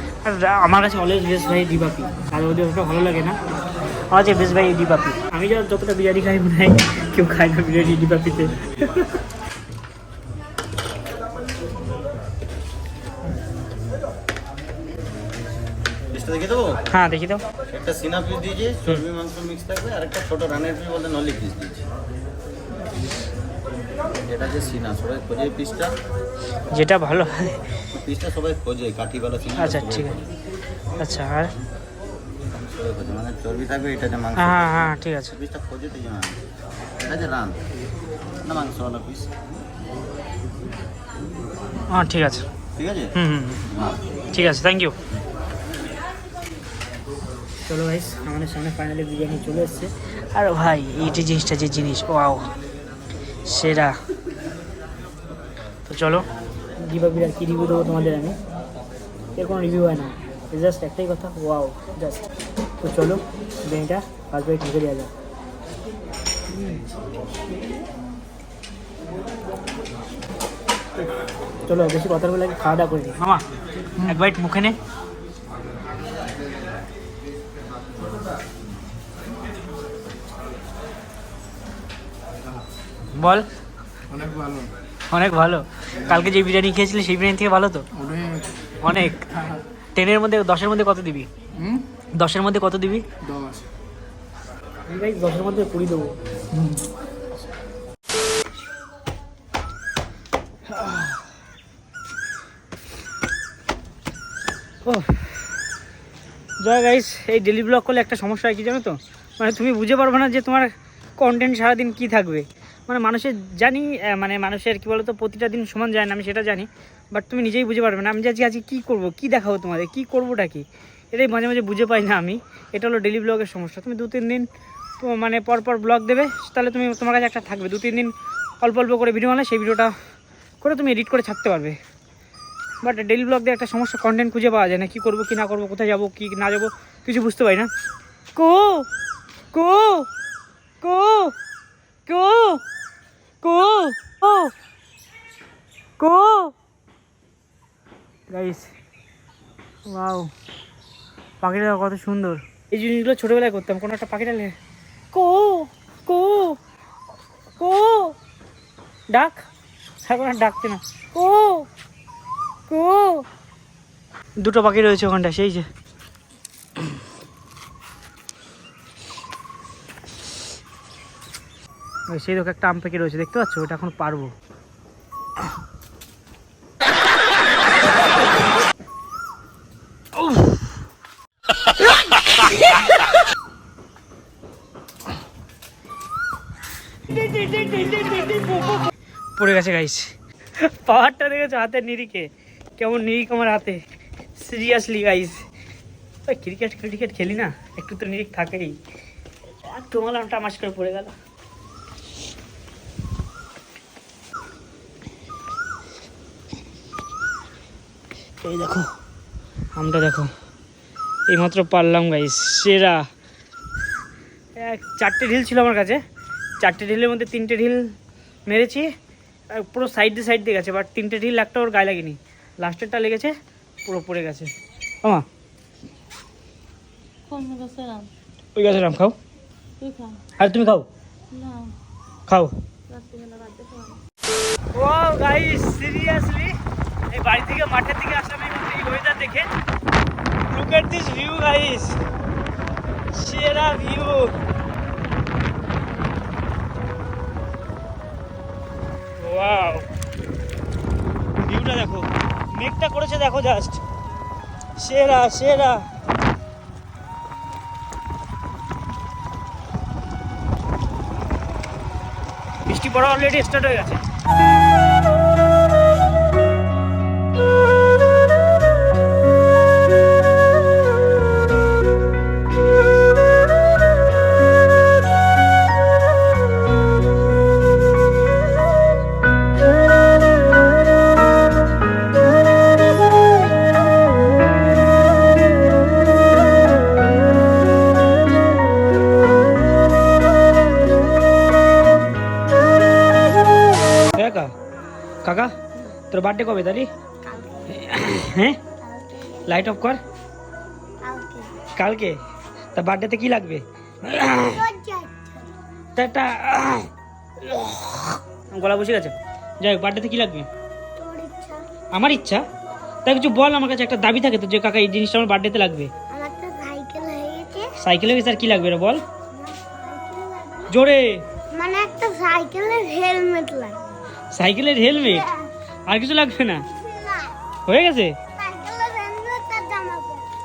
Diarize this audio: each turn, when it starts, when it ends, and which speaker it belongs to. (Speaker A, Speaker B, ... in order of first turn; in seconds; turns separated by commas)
Speaker A: 0.2-3.4, Speaker A: 4.1-9.2, Speaker B: 16.1-16.8, Speaker A: 16.9-17.4, Speaker B: 17.7-21.9, Speaker B: 24.2-25.9, Speaker A: 26.7-27.6, Speaker B: 27.9-30.2, Speaker A: 29.6-30.2, Speaker A: 31.0-31.5, Speaker B: 32.6-36.5, Speaker A: 34.4-35.3, Speaker B: 37.0-37.6, Speaker B: 38.4-39.3, Speaker A: 41.9-42.5, Speaker B: 42.8-43.1, Speaker A: 43.1-43.6, Speaker A: 44.3-45.0, Speaker A: 47.6-52.5, Speaker A: 53.4-54.0, Speaker A: 55.9-56.3, Speaker A: 56.8-58.4, Speaker A: 59.4-62.3, Speaker A: 62.8-65.1, Speaker A: 66.5-66.8, Speaker A: 71.7-73.4, Speaker A: 74.0-74.8, Speaker A: 83.1-83.5, Speaker C: 84.1-84.7, Speaker A: 85.1-87.8, Speaker C: 87.9-88.5, Speaker A: 88.8-89.2, Speaker C: 89.4-89.6, Speaker A: 89.9-91.3, Speaker C: 91.5-91.8, Speaker A: 92.1-93.0, Speaker C: 93.2-93.7, Speaker A: 94.9-96.1, Speaker C: 96.5-96.8, Speaker A: 104.8-105.5, Speaker A: 106.6-124.5, Speaker A: 125.0-129.9, Speaker A: 130.6-131.8, Speaker A: 132.8-137.7, Speaker A: 138.3-138.9, Speaker A: 139.5-140.1, Speaker A: 140.8-141.3, Speaker A: 142.1-142.6, Speaker A: 143.4-144.5, Speaker A: 146.0-146.5, Speaker A: 148.3-148.7, Speaker A: 149.9-150.3, Speaker A: 151.4-154.5, Speaker A: 155.1-156.6, Speaker A: 157.6-158.2, Speaker A: 159.1-159.4, Speaker A: 160.1-161.7, Speaker A: 162.7-163.2, Speaker A: 164.4-165.7, Speaker A: 172.1-174.3, Speaker A: 187.1-188.8, Speaker A: 189.4-193.8, Speaker A: 194.3-195.4, Speaker A: 196.2-198.8, Speaker A: 199.5-201.1, Speaker A: 208.4-208.9, Speaker A: 209.7-210.3, Speaker A: 211.3-213.0, Speaker A: 214.6-216.0, Speaker A: 216.6-217.8, Speaker A: 218.4-218.9, Speaker A: 219.5-223.3, Speaker A: 223.8-224.5, Speaker D: 227.3-228.1, Speaker A: 228.5-229.2, Speaker D: 229.8-230.2, Speaker A: 230.3-230.9, Speaker D: 231.3-231.7, Speaker A: 232.3-232.5, Speaker D: 232.9-234.0, Speaker A: 234.7-236.5, Speaker A: 237.1-239.5, Speaker A: 240.5-242.0, Speaker A: 243.1-244.3, Speaker A: 249.2-249.8, Speaker A: 251.3-253.8, Speaker A: 254.8-255.8, Speaker A: 262.6-264.0, Speaker A: 294.1-294.5, Speaker A: 295.2-295.5, Speaker A: 296.1-296.9, Speaker E: 297.2-297.9, Speaker A: 297.7-298.6, Speaker E: 298.8-299.5, Speaker A: 299.4-300.0, Speaker E: 301.0-301.6, Speaker A: 301.8-302.2, Speaker A: 302.8-304.6, Speaker E: 304.4-305.6, Speaker A: 305.9-306.9, Speaker A: 307.4-310.5, Speaker E: 310.9-311.7, Speaker A: 311.9-312.4, Speaker A: 313.1-315.9, Speaker E: 316.1-317.8, Speaker A: 317.8-319.0, Speaker E: 319.3-320.7, Speaker A: 320.7-321.2, Speaker E: 321.5-323.8, Speaker A: 324.3-325.3, Speaker A: 325.9-326.6, Speaker E: 326.7-327.4, Speaker A: 327.6-328.2, Speaker E: 328.3-330.3